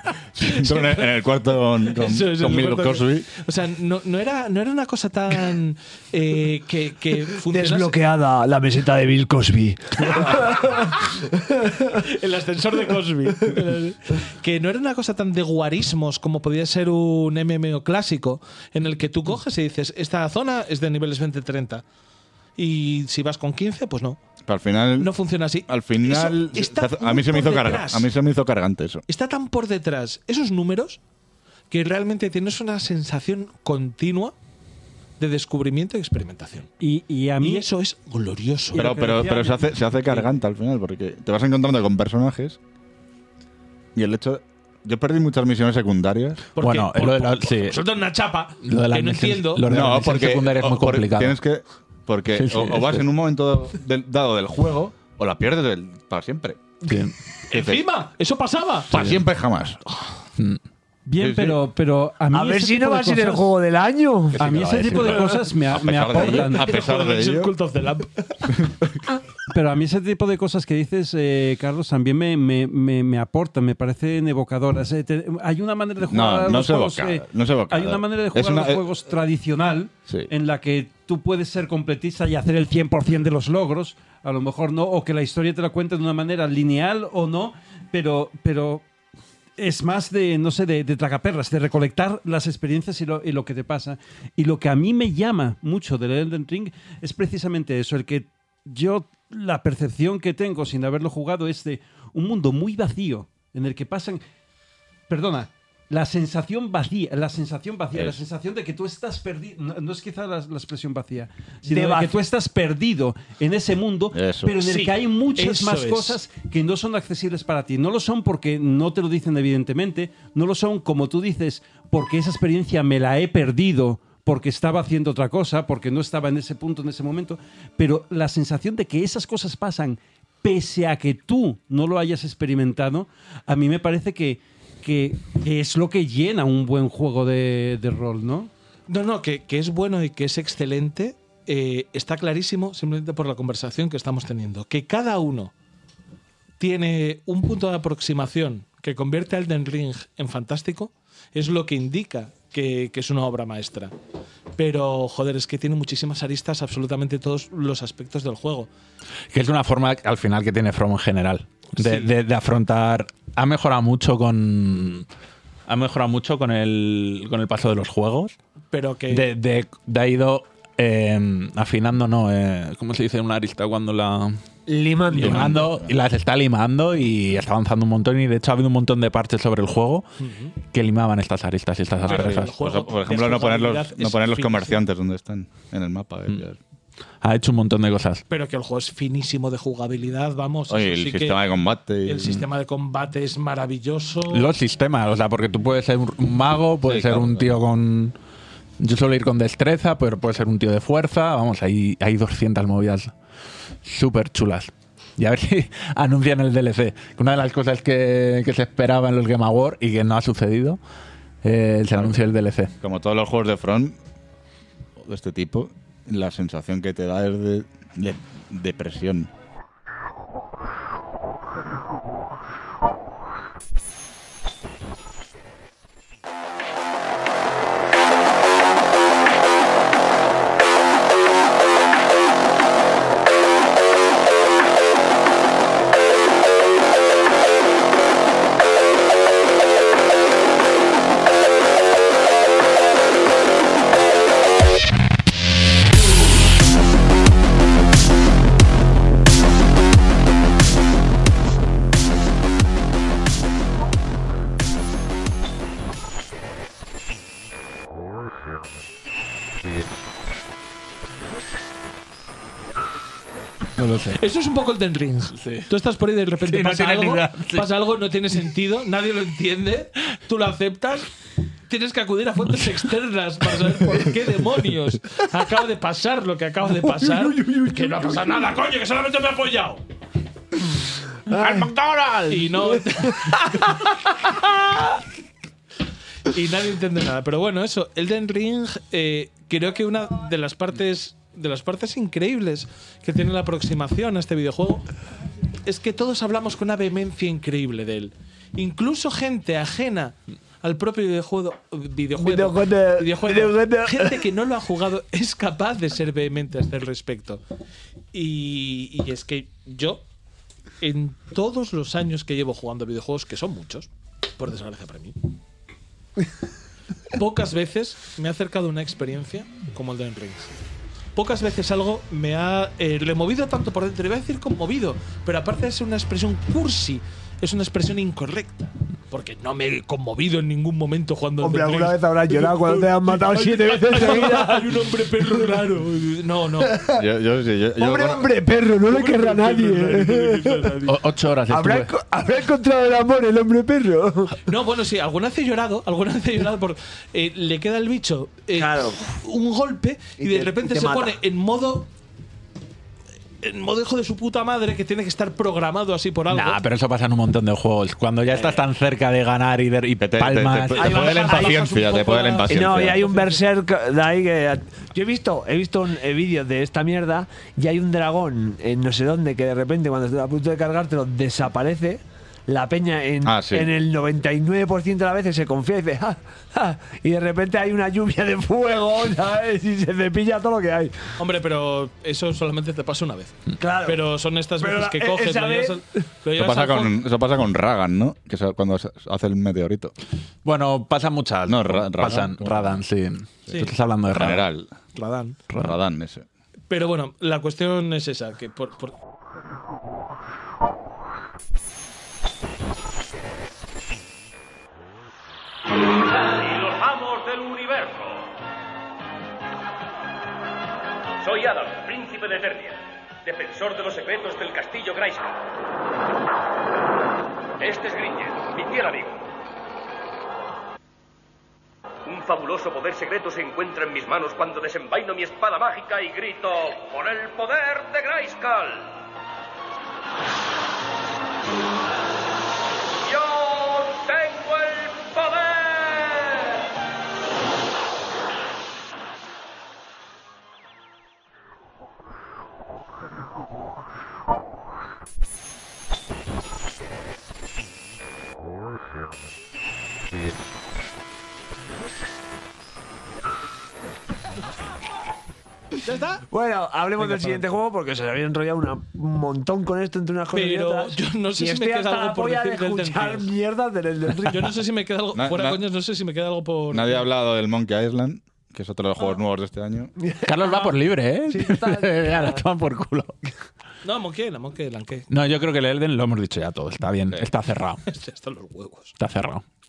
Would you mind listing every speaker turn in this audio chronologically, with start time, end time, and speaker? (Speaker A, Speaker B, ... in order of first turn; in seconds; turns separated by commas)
Speaker A: 0.3-3.3, Speaker B: 0.4-1.2, Speaker B: 1.8-8.0, Speaker C: 7.4-12.0, Speaker B: 10.4-10.9, Speaker B: 11.9-21.8, Speaker B: 22.6-24.2, Speaker A: 24.4-25.1, Speaker B: 25.0-28.1, Speaker A: 25.7-29.0, Speaker B: 29.1-31.0, Speaker B: 31.7-34.3, Speaker B: 35.2-36.7, Speaker D: 36.8-37.7, Speaker B: 37.4-38.9, Speaker D: 38.7-40.3, Speaker A: 38.7-42.6, Speaker A: 43.9-46.5, Speaker B: 46.5-49.6, Speaker E: 46.6-47.8, Speaker E: 48.6-51.4, Speaker A: 49.6-56.9, Speaker E: 52.3-53.0, Speaker E: 56.8-57.1, Speaker B: 57.5-59.0, Speaker A: 57.5-57.8, Speaker A: 58.9-59.8, Speaker E: 58.9-59.2, Speaker D: 61.0-63.5, Speaker A: 61.2-61.6, Speaker C: 62.3-64.5, Speaker A: 64.3-67.5, Speaker D: 64.4-66.7, Speaker B: 66.1-68.5, Speaker D: 69.5-88.8, Speaker A: 76.1-78.8, Speaker D: 89.6-104.2, Speaker D: 105.1-138.5, Speaker C: 111.7-112.1, Speaker A: 114.1-114.7, Speaker B: 114.6-116.2, Speaker B: 138.9-145.5, Speaker B: 146.6-153.9, Speaker B: 154.6-158.7, Speaker E: 159.3-165.1, Speaker B: 161.7-162.1, Speaker E: 165.7-168.3, Speaker B: 168.7-169.3, Speaker E: 169.1-174.4, Speaker C: 174.7-175.7, Speaker E: 175.1-180.0, Speaker A: 175.1-175.9, Speaker B: 180.2-180.5, Speaker E: 180.7-182.5, Speaker A: 181.9-186.6, Speaker B: 182.1-184.8, Speaker E: 187.2-188.2, Speaker B: 188.3-191.4, Speaker A: 190.7-192.4, Speaker B: 192.0-194.5, Speaker E: 194.3-198.1, Speaker A: 196.8-197.5, Speaker E: 198.8-203.1, Speaker E: 203.8-210.8, Speaker E: 211.4-212.7, Speaker A: 211.9-212.2, Speaker A: 212.8-214.0, Speaker A: 215.0-219.3, Speaker E: 263.8-264.2, Speaker B: 264.1-271.1, Speaker E: 265.4-265.7, Speaker E: 266.4-267.7, Speaker B: 271.7-279.8, Speaker C: 276.9-277.9, Speaker C: 281.3-283.4, Speaker B: 281.3-281.7, Speaker B: 282.3-284.4, Speaker B: 286.2-294.9, Speaker B: 295.6-307.4, Speaker C: 302.2-304.3, Speaker B: 308.1-310.0, Speaker B: 310.8-315.2, Speaker B: 317.1-320.5, Speaker B: 321.1-336.8, Speaker C: 331.4-335.7, Speaker C: 336.6-337.1, Speaker A: 336.9-338.3, Speaker C: 337.8-340.8, Speaker B: 338.9-340.9, Speaker E: 340.8-341.9, Speaker C: 341.5-344.4, Speaker B: 344.4-351.9, Speaker C: 348.5-349.0, Speaker C: 350.2-351.2, Speaker B: 353.4-356.6, Speaker E: 356.3-361.6, Speaker C: 358.3-358.6, Speaker A: 360.0-363.0, Speaker C: 360.8-361.9, Speaker B: 360.8-363.4, Speaker C: 362.5-381.1, Speaker A: 373.2-373.7, Speaker B: 381.2-387.0, Speaker C: 383.6-384.1, Speaker C: 384.6-386.0, Speaker A: 386.4-389.9, Speaker E: 390.4-394.4, Speaker A: 391.5-392.8, Speaker A: 393.5-394.7, Speaker B: 394.9-395.4, Speaker A: 395.6-396.2, Speaker B: 396.7-398.9, Speaker F: 406.0-408.3, Speaker F: 411.2-415.4, Speaker F: 417.6-419.2, Speaker F: 422.1-429.0, Speaker F: 433.0-436.6, Speaker B: 455.8-456.2, Speaker C: 456.3-464.5, Speaker B: 460.3-463.3, Speaker B: 464.2-467.1, Speaker A: 465.1-465.6, Speaker A: 466.7-469.9, Speaker C: 470.0-470.7, Speaker E: 470.2-473.1, Speaker C: 471.3-472.4, Speaker B: 473.8-475.1, Speaker E: 475.1-477.8, Speaker B: 477.9-478.9, Speaker E: 479.0-479.4